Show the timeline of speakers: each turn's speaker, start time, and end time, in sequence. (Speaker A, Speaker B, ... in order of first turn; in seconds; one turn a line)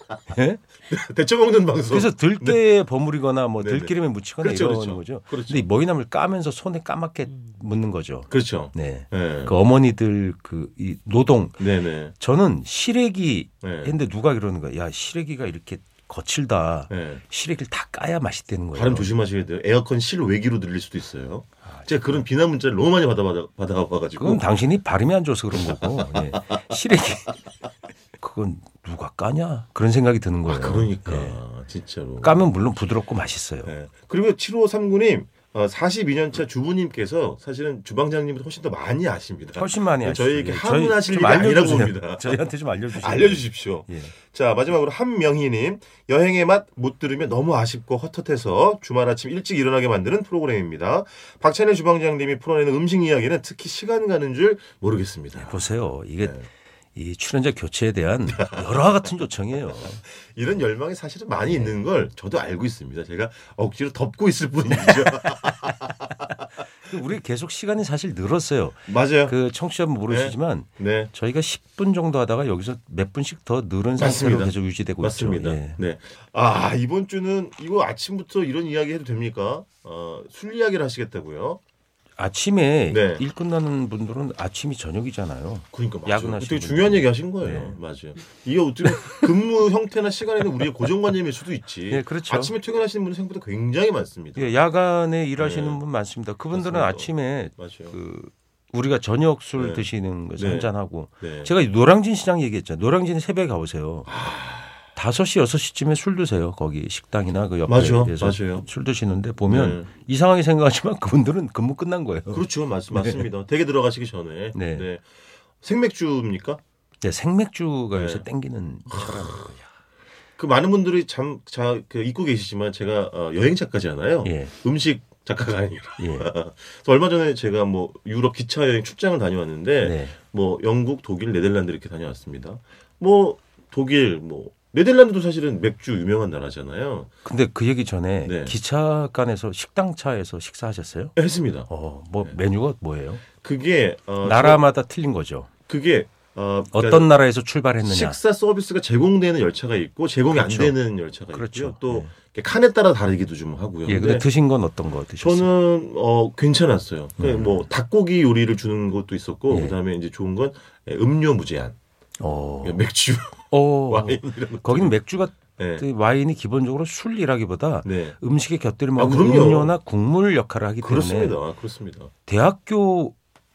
Speaker A: 0.3-0.6
Speaker B: 0.9-2.6
Speaker A: 1.9-11.7
Speaker B: 3.6-5.7
Speaker B: 8.3-9.5
Speaker B: 11.6-12.1
Speaker A: 12.2-19.1
Speaker B: 13.6-14.0
Speaker B: 16.9-17.2
Speaker B: 18.7-24.5
Speaker A: 21.7-22.2
Speaker A: 24.2-27.4
Speaker B: 25.5-26.6
Speaker A: 28.2-31.4
Speaker B: 30.5-32.5
Speaker A: 32.2-33.7
Speaker B: 33.6-55.6
Speaker A: 39.5-44.1
Speaker A: 55.4-60.0
Speaker B: 56.2-56.5
Speaker B: 58.3-58.7
Speaker B: 59.8-65.9
Speaker A: 61.5-61.8
Speaker A: 64.8-65.7
Speaker A: 66.8-75.8
Speaker B: 68.9-69.4
Speaker B: 70.1-71.1
Speaker B: 74.0-81.6
Speaker A: 82.2-87.8
Speaker B: 82.9-83.2
Speaker B: 85.7-94.6
Speaker A: 88.9-89.2
Speaker A: 91.9-92.6
Speaker A: 94.3-104.1
Speaker B: 95.4-95.8
Speaker B: 96.5-98.0
Speaker B: 99.6-101.5
Speaker B: 104.1-104.9
Speaker A: 104.9-113.3
Speaker B: 107.7-108.7
Speaker B: 109.5-109.9
Speaker B: 112.3-115.1
Speaker A: 114.5-114.9
Speaker B: 115.6-116.6
Speaker A: 117.0-119.7
Speaker B: 117.9-118.2
Speaker B: 118.9-119.4
Speaker B: 120.4-137.1
Speaker A: 124.2-124.5
Speaker A: 126.0-126.3
Speaker A: 129.8-130.2
Speaker A: 137.2-141.1
Speaker B: 138.2-138.6
Speaker B: 141.2-141.7
Speaker A: 141.7-143.2
Speaker B: 143.3-144.6
Speaker A: 144.2-145.5
Speaker B: 145.7-147.1
Speaker A: 146.7-148.2
Speaker B: 147.8-154.3
Speaker A: 150.3-150.8
Speaker A: 151.3-152.1
Speaker A: 153.9-155.5
Speaker B: 155.2-161.8
Speaker A: 157.2-157.7
Speaker A: 159.5-159.8
Speaker A: 162.2-162.8
Speaker B: 162.6-165.0
Speaker A: 163.5-171.4
Speaker B: 165.6-165.8
Speaker B: 167.8-168.2
Speaker B: 168.9-169.8
Speaker B: 170.8-172.1
Speaker A: 172.2-173.2